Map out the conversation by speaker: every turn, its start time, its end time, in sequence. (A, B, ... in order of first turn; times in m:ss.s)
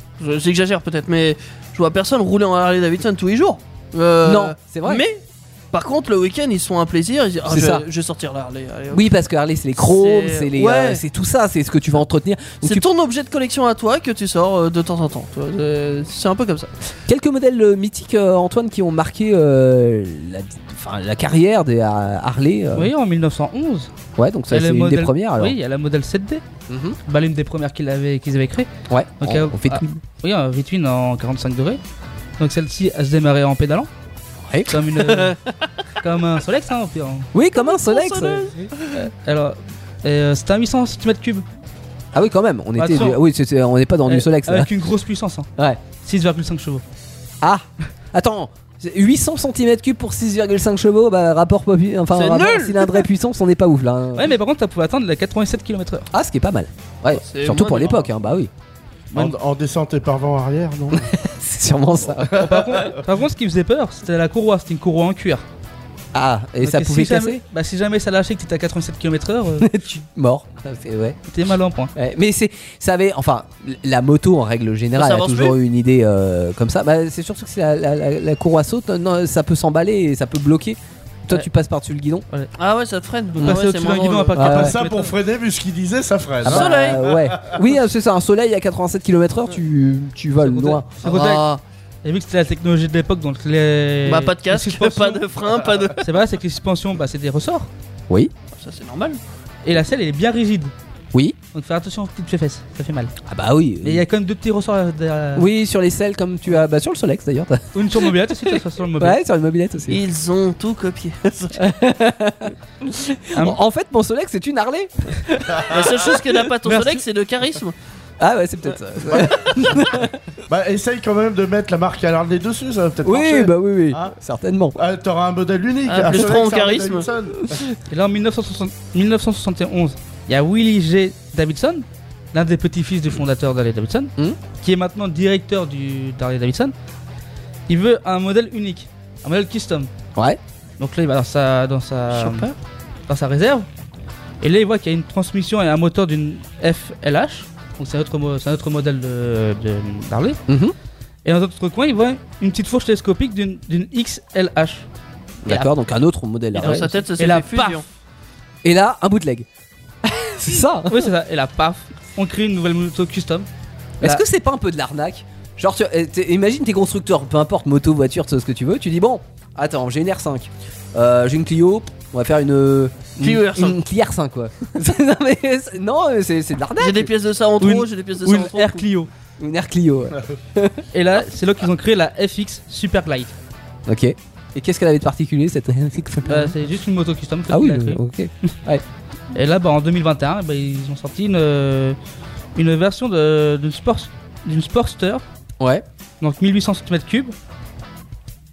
0:00.2-0:09.1 A
0:04.2-0:05.0 B
0:07.4-0:07.8 B
0:08.9-0:12.9 B
0:09.8-0:11.0 A
0:12.6-0:16.7 A
0:17.1-0:22.9 B
0:22.7-0:23.9 C
0:24.2-0:25.6 B
0:24.5-0:26.4 C
0:26.7-0:27.0 B
0:27.1-0:28.7 C
0:28.9-0:30.0 B
0:29.2-0:31.8 C
0:32.4-0:33.9 C
0:34.4-0:34.8 B
0:34.7-0:35.4 C
0:35.1-0:35.7 A
0:36.0-0:37.3 C
0:37.3-0:38.5 B
0:37.5-0:38.9 A
0:38.9-0:41.4 C
0:42.1-0:44.7 B
0:42.8-0:43.2 C
0:44.1-0:45.5 C
0:45.6-0:45.8 B
0:46.0-0:46.8 C
0:47.4-0:54.4 B
0:52.1-0:53.0 A
0:54.1-0:56.1 C
0:56.1-0:58.5 B
0:57.1-0:58.1 A
0:59.1-1:01.1 D
1:00.9-1:02.9 B
1:02.2-1:02.9 D
1:02.3-1:05.4 C
1:06.1-1:07.4 B
1:06.6-1:09.7 C
1:09.6-1:11.2 B
1:11.3-1:11.9 C
1:11.9-1:22.2 B
1:14.9-1:15.6 A
1:22.6-1:24.4 A
1:23.4-1:25.1 C
1:24.4-1:24.8 B
1:24.4-1:27.6 D
1:26.4-1:31.0 B
1:26.4-1:27.0 A
1:30.4-1:31.4 C
1:31.0-1:31.6 A
1:32.0-1:35.2 C
1:34.0-1:36.0 A
1:36.0-1:37.7 C
1:38.6-1:39.2 A
1:39.6-1:40.7 C
1:41.5-1:43.1 C
1:43.3-1:44.0 B
1:43.8-1:45.5 C
1:45.4-1:50.0 B
1:47.7-1:49.2 C
1:49.9-1:51.7 A
1:51.6-1:56.3 B
1:53.3-1:53.6 C
1:55.5-1:55.8 D
1:55.7-1:57.7 A
1:56.6-1:57.0 C
1:58.2-2:00.2 B
1:59.1-1:59.8 D
2:00.5-2:04.1 D
2:03.0-2:04.8 B
2:04.8-2:07.6 D
2:05.9-2:07.1 A
2:07.9-2:16.7 C
2:17.7-2:19.9 C
2:20.8-2:22.5 C
2:22.1-2:22.6 A
2:23.1-2:23.7 C
2:24.4-2:30.4 C
2:30.5-2:30.8 B
2:31.2-2:34.9 C
2:35.4-2:36.9 B
2:36.6-2:37.8 A
2:36.6-2:37.8 C
2:38.6-2:39.4 B
2:40.0-2:41.1 B
2:40.9-2:43.5 C
2:44.0-2:57.1 B
2:53.2-2:53.8 A
2:56.8-2:58.8 A
2:57.6-2:59.1 C
2:59.4-3:00.8 B
3:00.9-3:03.4 C
3:03.9-3:06.6 B
3:06.2-3:08.0 C
3:07.5-3:08.8 B
3:09.4-3:12.0 C
3:12.6-3:15.2 C
3:15.6-3:15.8 B
3:16.2-3:17.3 C